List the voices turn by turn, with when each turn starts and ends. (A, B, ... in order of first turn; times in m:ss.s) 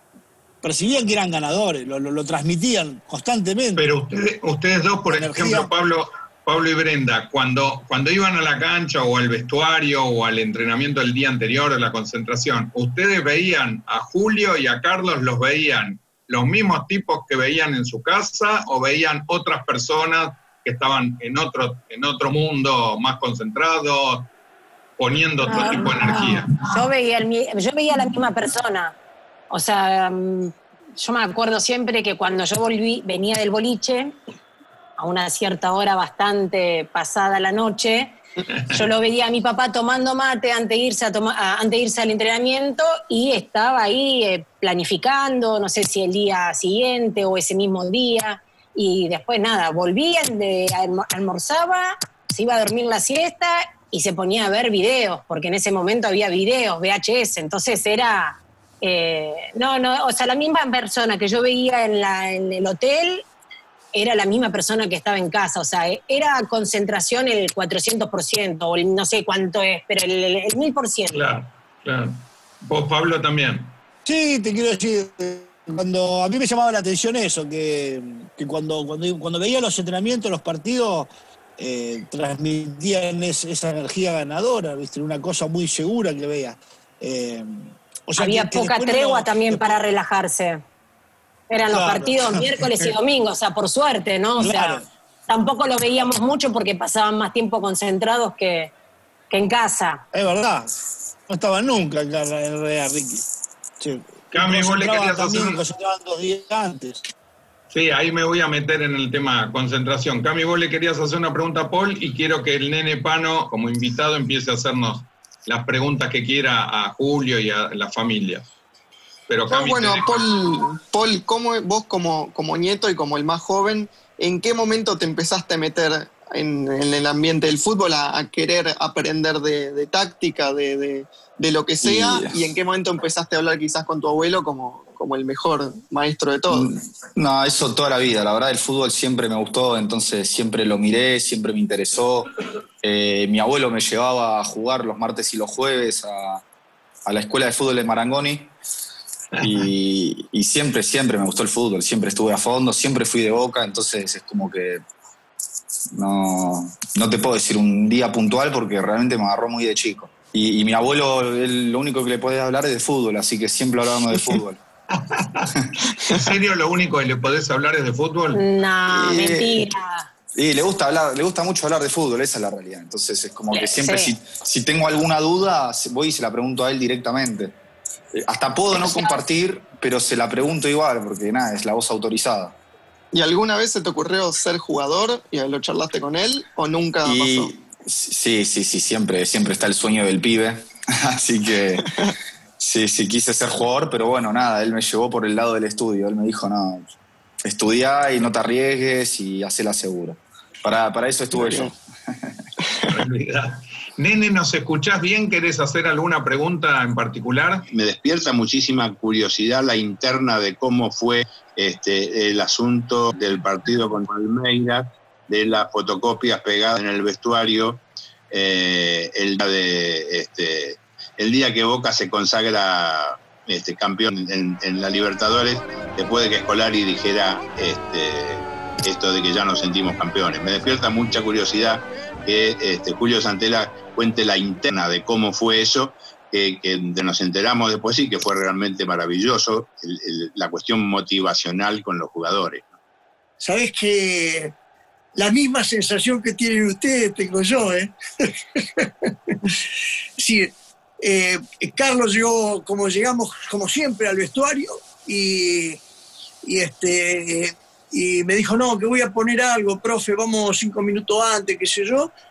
0:00.6-0:03.8 A
0:03.8-0:24.3 B
0:05.1-0:05.7 A
0:25.0-0:26.5 B
0:25.4-0:29.0 C
0:29.5-0:34.2 C
0:35.0-1:03.2 C
1:03.9-1:11.2 C
1:11.1-1:13.8 B
1:14.0-1:29.8 A
1:28.2-1:30.6 C
1:31.5-1:38.7 C
1:31.7-1:32.9 A
1:34.4-1:34.8 A
1:39.3-1:40.0 C
1:40.1-1:40.7 A
1:41.3-1:43.2 A
1:43.8-1:47.0 A
1:44.3-1:45.6 B
1:47.7-1:58.5 B
1:59.3-2:00.3 B
1:59.5-2:16.7 D
2:11.8-2:12.4 E
2:16.5-2:22.3 E
2:22.8-2:26.4 E
2:27.0-2:28.5 E
2:29.4-2:29.6 B
2:29.4-2:34.8 E
2:35.9-2:44.6 E
2:44.9-2:45.5 B
2:46.1-2:48.4 B
2:48.3-2:50.1 C
2:48.9-2:49.6 E
2:50.4-2:57.5 E
2:53.5-2:54.1 C
2:58.1-3:02.6 E
2:58.7-2:59.2 C
3:03.1-3:07.5 D
3:07.0-3:11.8 E
3:11.8-3:12.1 D
3:12.6-3:16.9 E
3:17.4-3:22.3 E
3:21.3-3:21.7 D
3:22.9-3:27.7 B
3:27.7-4:02.7 F
4:03.4-4:04.5 G
4:05.1-4:09.5 G
4:10.2-4:15.8 G
4:16.4-4:22.1 G